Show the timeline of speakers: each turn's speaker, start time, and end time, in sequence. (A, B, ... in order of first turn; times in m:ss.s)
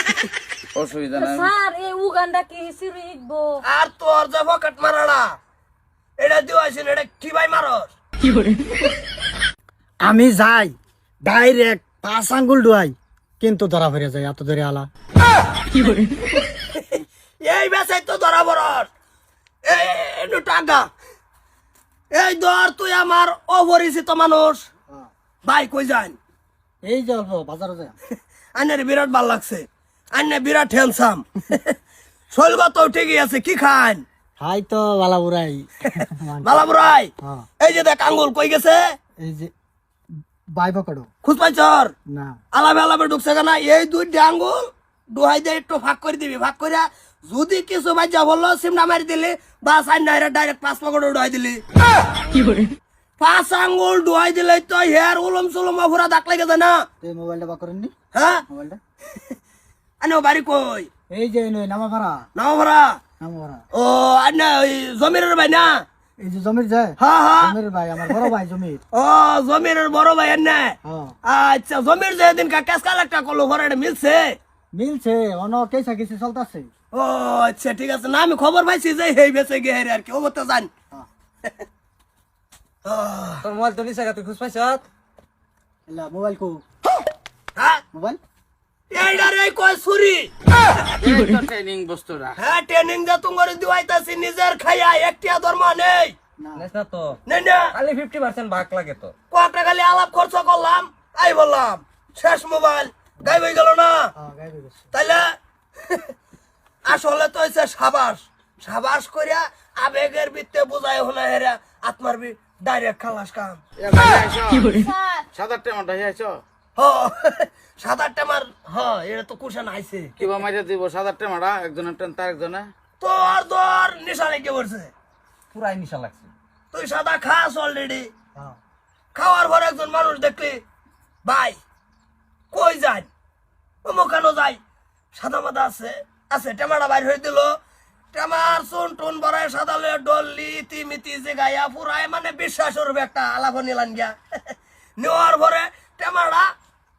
0:00.7-0:01.5 A
0:01.2-0:03.5 B
0:03.6-0:05.3 C
0:06.2-0:07.9 C
0:10.0-0:14.9 D
0:15.8-0:18.9 C
0:19.7-0:20.9 C
0:22.1-0:24.6 C
0:25.4-0:26.2 C
0:26.8-0:27.9 D
0:28.5-0:31.7 C
0:32.3-0:34.0 C
0:34.4-0:37.5 D
0:36.4-0:38.9 C
0:39.2-0:39.5 D
0:40.5-0:41.1 D
0:41.2-0:41.9 C
0:42.1-0:42.4 D
0:42.5-0:44.6 C
0:45.1-0:51.6 C
0:52.3-0:52.6 D
0:53.2-0:56.8 C
0:57.0-0:57.9 D
0:58.1-0:58.4 C
0:58.5-0:58.8 D
1:00.0-1:00.9 C
1:01.1-1:02.3 D
1:02.4-1:03.0 C
1:03.2-1:03.6 D
1:03.7-1:05.8 C
1:06.2-1:08.8 D
1:07.0-1:07.6 C
1:08.9-1:14.4 C
1:10.8-1:11.1 D
1:14.7-1:16.7 D
1:16.9-1:20.7 C
1:22.8-1:23.4 C
1:23.4-1:24.8 E
1:25.9-1:26.6 D
1:27.6-1:27.8 C
1:27.9-1:28.2 D
1:28.9-1:30.3 C
1:31.0-1:32.4 A
1:32.4-1:36.1 C
1:36.4-1:36.7 D
1:36.5-1:37.2 E
1:37.3-1:37.7 C
1:37.7-1:39.1 E
1:39.3-1:44.1 C
1:44.1-1:44.9 D
1:44.9-1:45.3 C
1:46.8-1:53.6 C
1:53.8-1:56.4 A
1:54.8-1:55.2 B
1:56.8-2:00.2 C
2:00.2-2:02.7 A
2:03.0-2:04.9 C
2:05.5-2:06.3 E
2:06.7-2:08.1 C
2:09.1-2:10.6 C
2:11.2-2:11.6 C
2:12.5-2:13.1 C
2:13.8-2:14.6 C
2:15.1-2:17.6 C
2:18.1-2:26.5 C